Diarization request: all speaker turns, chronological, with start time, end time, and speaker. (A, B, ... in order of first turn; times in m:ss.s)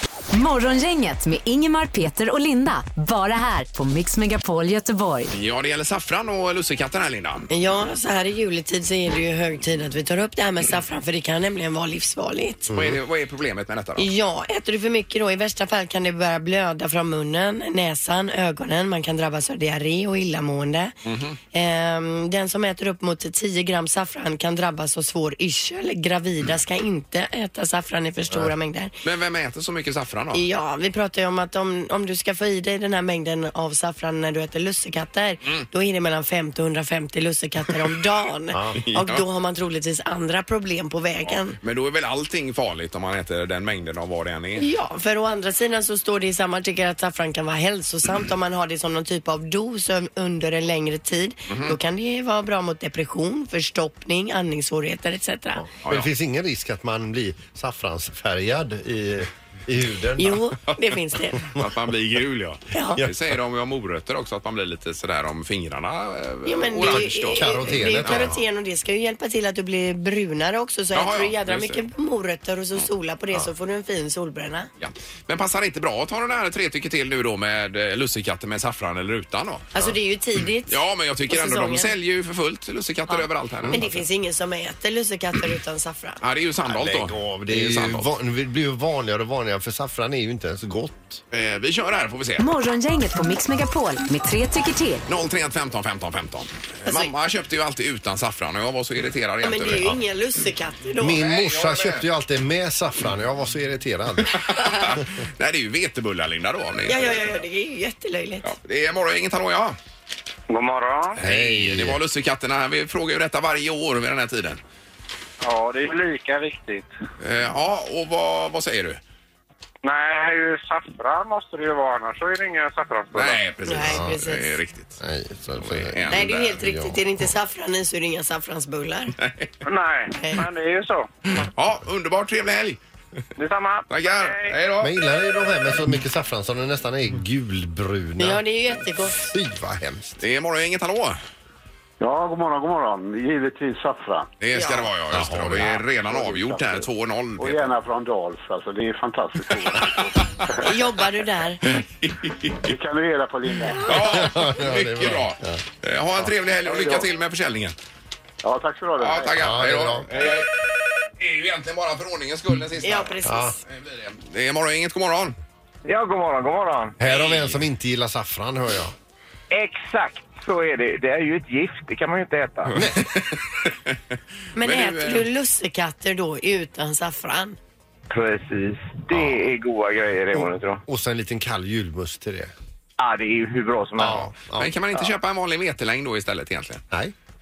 0:00.3-0:05.3 A
0:05.3-0:07.5 B
0:07.5-0:12.7 C
0:12.7-0:13.0 D
0:12.7-0:14.1 B
0:14.0-0:20.9 C
0:21.0-0:21.4 B
0:21.5-0:28.9 C
0:29.0-0:30.4 B
0:30.3-0:41.6 C
0:38.5-0:38.8 D
0:38.8-0:39.2 B
0:41.6-0:44.6 B
0:44.6-0:55.6 C
0:51.5-0:51.7 B
0:55.6-1:00.4 D
0:55.8-0:56.1 B
1:00.2-1:01.4 C
1:01.4-1:08.3 B
1:02.7-1:03.0 C
1:06.4-1:14.7 C
1:06.8-1:08.4 D
1:10.9-1:11.8 B
1:14.8-1:19.8 B
1:19.7-1:21.9 C
1:20.7-1:24.0 B
1:23.1-1:26.2 C
1:26.2-1:28.1 B
1:26.6-1:31.2 D
1:31.3-1:32.4 B
1:32.4-1:35.0 A
1:35.1-1:39.9 B
1:36.8-1:37.1 C
1:39.4-1:41.2 C
1:41.0-1:44.4 D
1:41.2-1:42.0 B
1:44.3-1:47.3 B
1:46.9-1:48.5 C
1:48.4-1:49.8 B
1:50.5-1:51.2 E
1:51.2-1:54.6 B
1:51.2-1:52.0 D
1:55.4-1:56.9 E
1:57.2-1:59.0 B
1:59.8-2:03.4 E
2:03.1-2:05.0 B
2:03.6-2:04.6 C
2:05.0-2:07.0 D
2:05.6-2:06.6 B
2:06.1-2:09.1 C
2:09.2-2:09.5 B
2:09.6-2:11.1 E
2:10.1-2:10.4 C
2:11.4-2:12.8 B
2:13.4-2:14.5 E
2:13.9-2:14.9 B
2:14.8-2:18.4 D
2:18.2-2:19.3 C
2:19.2-2:20.2 D
2:20.2-2:21.2 B
2:22.0-2:24.3 F
2:24.4-2:27.6 B
2:24.5-2:24.9 C
2:25.1-2:25.8 D
2:26.0-2:26.8 F
2:27.4-2:30.6 F
2:29.8-2:30.5 B
2:30.6-2:31.6 C
2:31.6-2:32.7 B
2:32.6-2:34.0 F
2:33.8-2:37.8 B
2:33.9-2:35.6 D
2:36.7-2:37.0 F
2:38.4-2:39.4 F
2:39.0-2:40.5 B
2:39.4-2:40.1 D
2:41.2-2:45.4 B
2:42.8-2:43.6 C
2:43.2-2:43.5 D
2:45.8-2:46.9 G
2:47.0-2:48.9 D
2:47.0-2:47.6 B
2:49.5-2:52.7 G
2:52.7-2:53.0 D
2:54.6-2:57.6 C
2:54.6-2:55.3 B
2:58.1-3:00.8 G
2:59.1-2:59.5 D
3:00.3-3:02.5 D
3:03.0-3:04.3 G
3:04.0-3:04.7 D
3:04.6-3:06.8 B